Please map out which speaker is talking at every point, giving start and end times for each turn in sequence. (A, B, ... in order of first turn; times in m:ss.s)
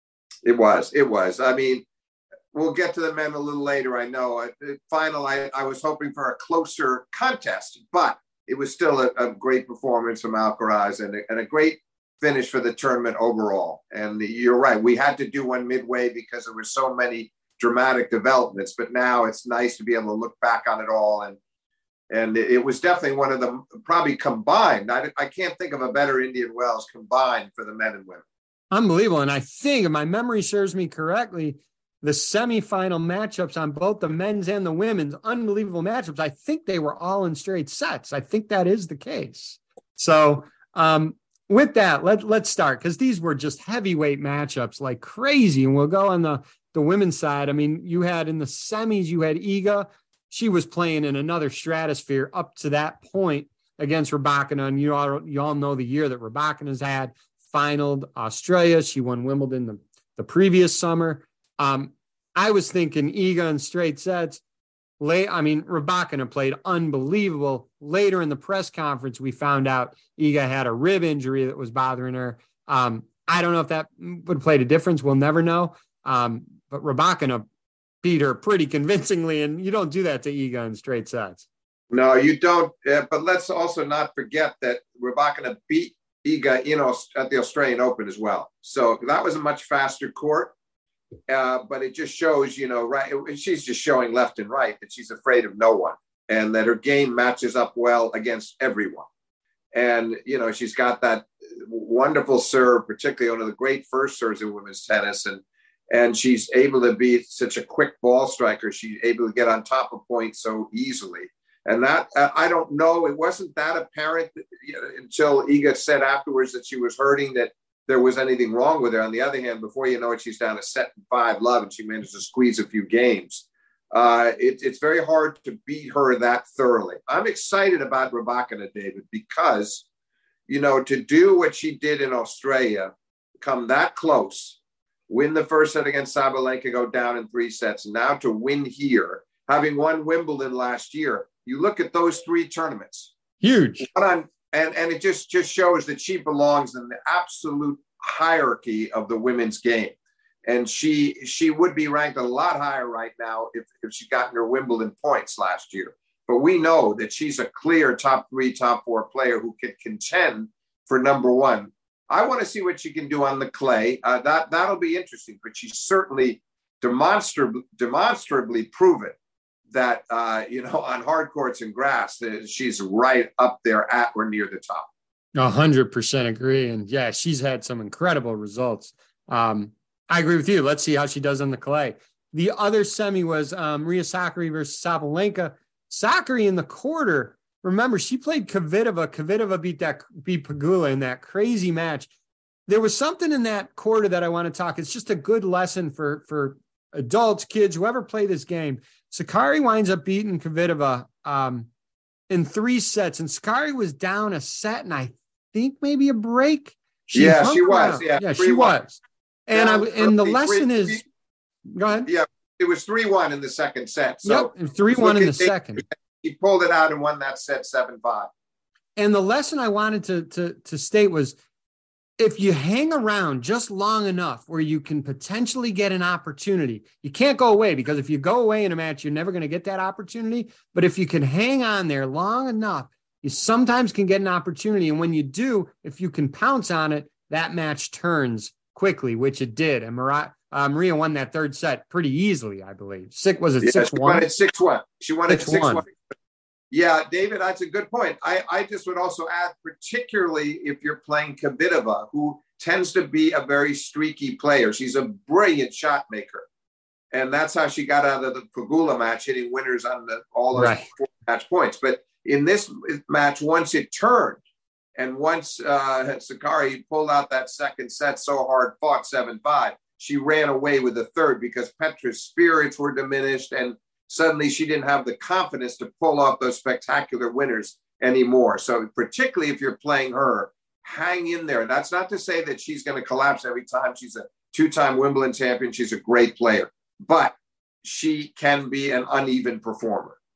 0:00.4-0:01.8 A
0:02.5-0:21.4 A
0:22.1-0:28.2 A
0:28.7-1:04.4 B
1:05.0-1:17.4 B
1:18.0-1:21.4 B
1:21.9-1:30.5 A
1:31.3-1:39.1 A
1:39.7-2:09.8 A
2:10.5-2:14.6 A
2:15.1-2:23.1 A
2:23.4-2:23.9 B
2:23.8-2:49.1 A
2:49.7-2:54.9 A
2:55.4-3:12.1 B
3:12.7-3:21.7 B
3:22.3-3:31.0 B
3:27.1-3:28.7 A
3:29.5-3:31.0 A
3:31.8-3:32.1 B
3:32.0-3:38.3 A
3:34.2-3:35.8 B
3:39.0-3:41.4 B
3:42.2-4:04.3 B
4:03.6-4:05.9 A
4:05.3-4:05.8 B
4:06.7-4:16.4 A
4:17.1-4:24.4 A
4:20.5-4:20.9 B
4:25.0-4:50.2 A